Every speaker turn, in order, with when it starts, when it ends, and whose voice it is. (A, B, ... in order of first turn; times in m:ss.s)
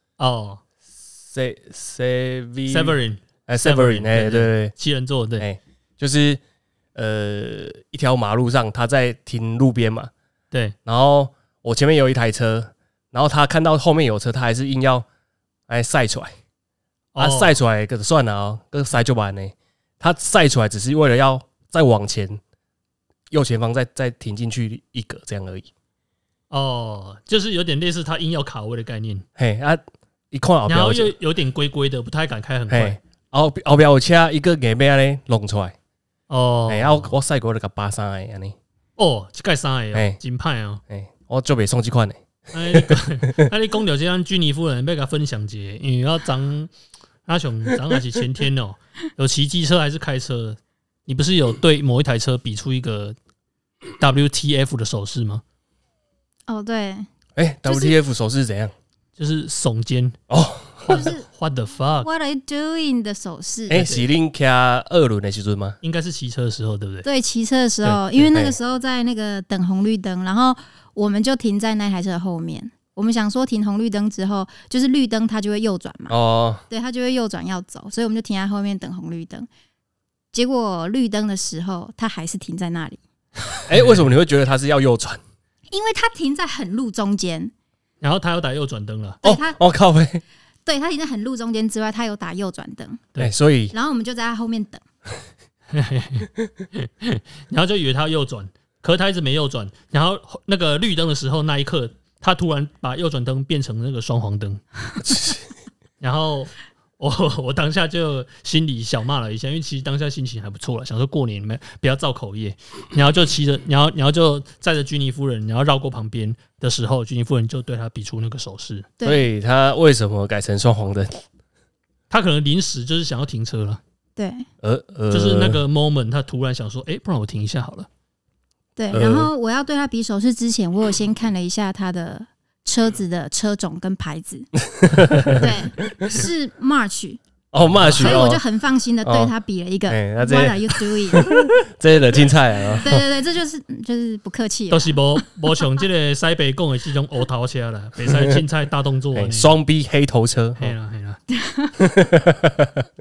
0:00.2-0:00.6 A
0:01.3-0:03.0 B
0:02.7-0:05.4 A
0:03.5-0:04.7 B
0:05.4-0:06.4 B
0:06.9-0:10.1 B
0:10.8-0:15.0 B
0:15.7-0:16.3 B
0:17.2-0:17.6 A
0:17.2-0:22.4 B
0:23.3-0:25.7 B
0:26.5-0:29.2 A
0:29.4-0:31.1 B
0:30.7-0:33.0 A
0:32.7-0:35.7 B
0:36.3-0:37.2 A
0:36.7-0:38.6 B
0:39.0-0:40.8 A
0:39.9-0:40.2 B
0:40.9-0:42.2 B
0:42.5-0:46.7 A
0:42.7-0:43.4 B
0:47.3-0:53.2 A
0:54.0-0:55.4 A
0:56.5-0:57.0 C
0:57.4-0:58.7 B
0:57.6-0:58.0 C
0:59.2-1:00.2 A
1:00.3-1:01.1 B
1:00.9-1:01.2 C
1:01.2-1:02.1 A
1:02.0-1:03.8 C
1:03.7-1:05.8 B
1:03.7-1:04.1 A
1:05.8-1:07.0 A
1:07.0-1:16.2 C
1:07.8-1:08.1 A
1:08.3-1:08.5 B
1:16.1-1:16.6 B
1:16.7-1:19.5 C
1:20.3-1:23.0 C
1:23.7-1:25.2 B
1:23.7-1:24.1 A
1:25.7-1:27.5 C
1:28.0-1:29.2 A
1:29.2-1:29.6 C
1:29.2-1:30.2 B
1:30.6-1:33.0 C
1:33.2-1:33.7 B
1:33.7-1:34.8 C
1:35.7-1:44.6 A
1:45.0-1:45.4 B
1:46.0-1:58.9 A
1:59.0-1:59.2 C
1:59.0-2:01.1 B
2:02.1-2:03.8 A
2:04.2-2:04.4 C
2:04.6-2:05.6 B
2:05.1-2:07.9 A
2:08.8-2:14.5 C
2:08.9-2:09.3 B
2:14.8-2:15.4 B
2:15.2-2:17.2 C
2:17.5-2:18.4 B
2:17.6-2:18.2 A
2:17.9-2:21.3 C
2:19.0-2:19.3 B
2:19.9-2:23.0 B
2:22.7-2:25.2 C
2:24.7-2:29.6 A
2:28.1-2:28.4 B
2:29.1-2:30.7 B
2:30.6-2:31.2 A
2:31.3-2:31.7 C
2:31.8-2:32.8 B